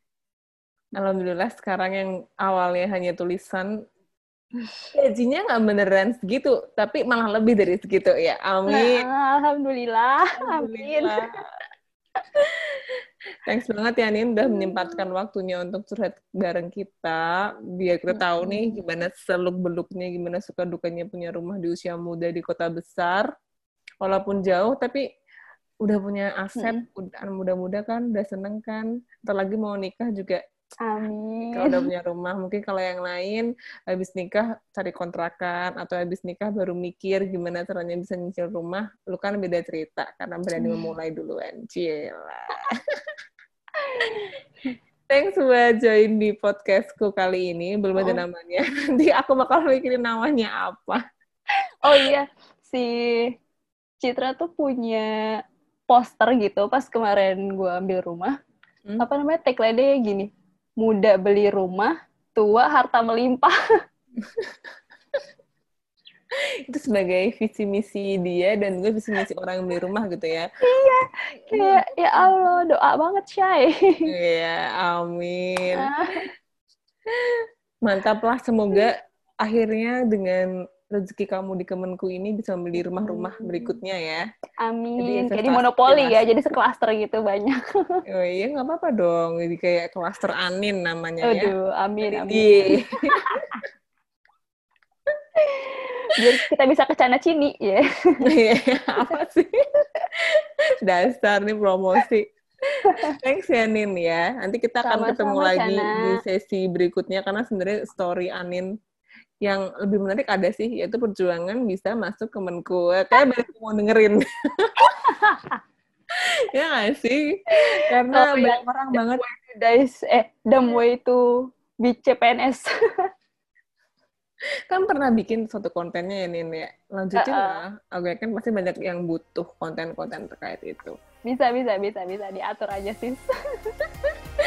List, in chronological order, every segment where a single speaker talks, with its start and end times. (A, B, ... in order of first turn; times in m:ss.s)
0:01.0-0:03.7 A
0:04.9-0:09.0 A
0:08.7-0:11.2 B
0:10.4-0:11.3 A
0:13.4-0:17.2 A
0:14.5-0:15.0 B
0:17.8-0:23.2 A
0:18.1-0:18.8 B
0:24.0-0:25.0 A
0:25.8-0:30.4 A
0:26.6-0:26.8 B
0:30.8-0:31.9 B
0:31.5-0:42.7 A
0:40.6-0:40.9 B
0:43.8-0:44.3 B
0:45.1-0:51.0 A
0:51.8-0:53.3 B
0:54.0-0:55.1 B
0:55.9-0:58.3 B
0:59.0-1:00.3 B
1:00.8-1:03.5 B
1:06.7-1:10.5 A
1:10.7-1:14.1 B
1:11.5-1:12.4 A
1:14.1-1:15.9 A
1:15.8-1:16.2 B
1:17.1-1:24.2 A
1:22.9-1:23.8 B
1:24.6-1:28.0 B
1:25.0-1:26.2 A
1:28.1-1:31.5 A
1:31.2-1:33.6 B
1:32.0-1:33.1 A
1:35.4-1:37.8 B
1:38.2-1:39.5 A
1:40.4-1:42.2 A
1:43.0-1:48.7 A
1:44.8-1:46.1 B
1:49.4-1:54.7 A
1:54.8-1:55.6 B
1:56.5-1:59.2 A
1:57.5-2:01.2 B
2:01.8-2:02.7 B
2:04.7-2:10.9 A
2:07.2-2:07.6 B
2:11.3-2:13.2 B